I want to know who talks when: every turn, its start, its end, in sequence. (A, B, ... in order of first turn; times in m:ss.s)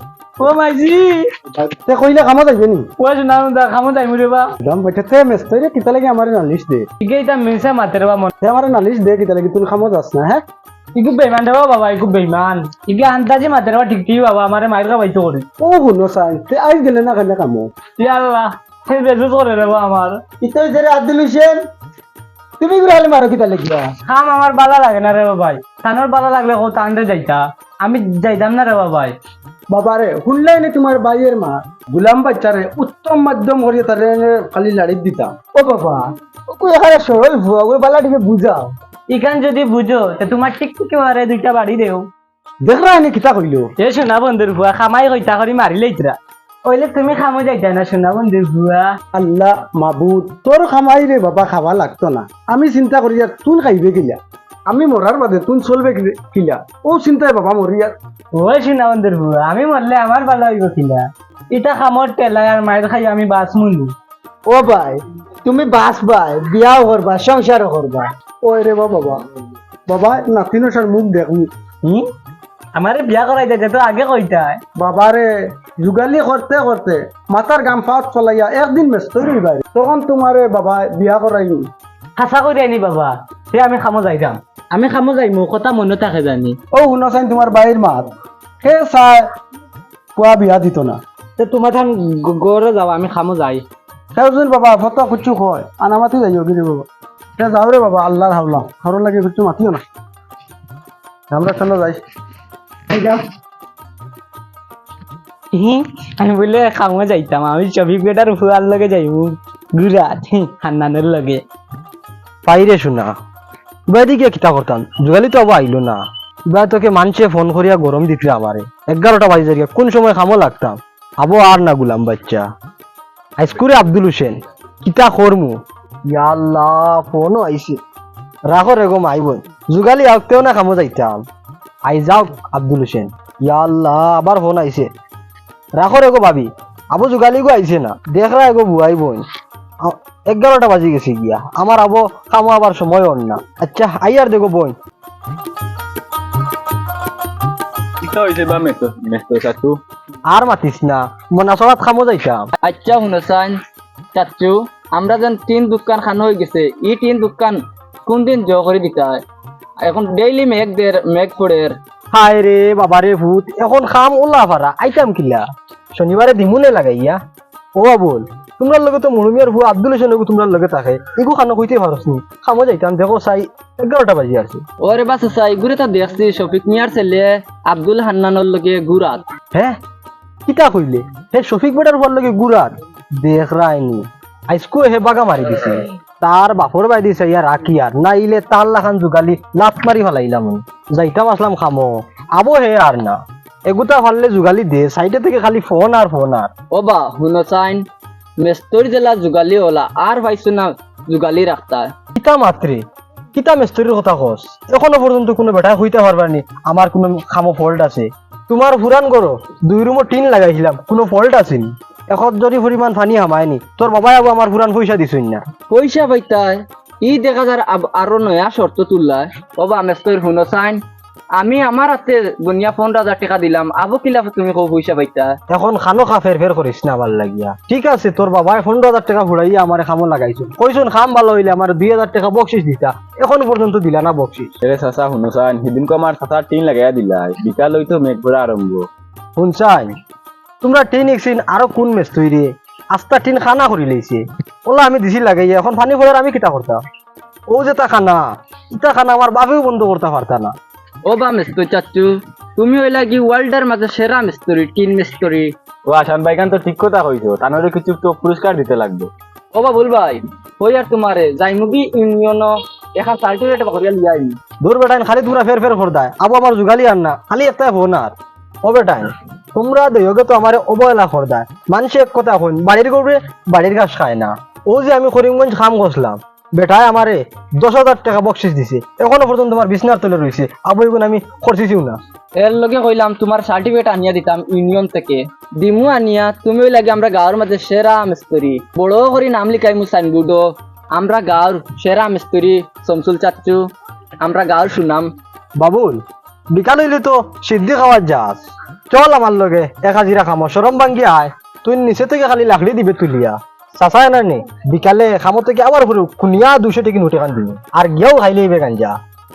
0:00.4-0:01.3 A
0:01.6-0:02.9 B
0:03.0-0:04.5 A
0:04.6-0:06.9 B
0:07.0-0:08.3 A
0:08.4-0:10.4 B
0:10.9-0:15.5 A
0:15.6-0:17.7 B
0:18.0-0:20.2 A
0:20.4-0:21.7 B
0:22.6-0:23.9 B
0:24.0-0:29.2 A
0:29.7-0:38.8 B
0:39.1-0:42.1 A
0:42.6-0:43.7 B
0:43.8-0:48.9 A
0:49.1-0:58.0 B
0:58.4-1:03.9 A
1:04.5-1:05.0 B
1:05.4-1:08.1 A
1:08.4-1:09.2 B
1:09.9-1:11.5 B
1:12.8-1:14.6 A
1:14.8-1:21.7 B
1:22.2-1:26.6 A
1:26.7-1:28.1 B
1:28.6-1:29.3 B
1:30.2-1:31.0 B
1:31.4-1:33.6 A
1:34.2-1:36.9 B
1:37.4-1:39.8 B
1:41.3-1:42.0 B
1:42.9-1:43.2 A
1:45.5-1:51.4 A
1:52.5-1:53.1 C
1:53.9-2:02.5 C
2:03.4-2:05.6 C
2:06.1-2:07.8 C
2:08.5-2:11.2 C
2:11.9-2:14.9 C
2:15.8-2:19.2 C
2:19.8-2:24.8 C
2:28.0-2:29.8 D
2:30.3-2:32.5 C
2:32.6-2:33.6 E
2:34.2-2:39.2 E
2:39.8-2:41.8 E
2:42.1-2:47.2 C
2:47.8-2:54.6 C
2:54.8-2:59.2 E
3:00.5-3:16.5 C
3:16.7-3:17.8 E
3:18.4-3:21.9 E
3:22.2-3:22.8 C
3:23.4-3:35.5 C
3:35.7-3:40.8 E
3:41.4-3:45.4 E
3:45.5-3:54.5 C
3:54.6-3:58.9 D
3:59.4-3:59.9 C
4:00.6-4:06.8 C
4:07.5-4:10.6 C
4:11.1-4:15.5 E
4:15.9-4:19.1 D
4:19.5-4:24.4 E
4:24.6-4:42.0 C
4:42.4-4:53.6 E
4:54.2-4:55.1 E
4:55.6-4:56.0 C
4:56.5-5:09.0 C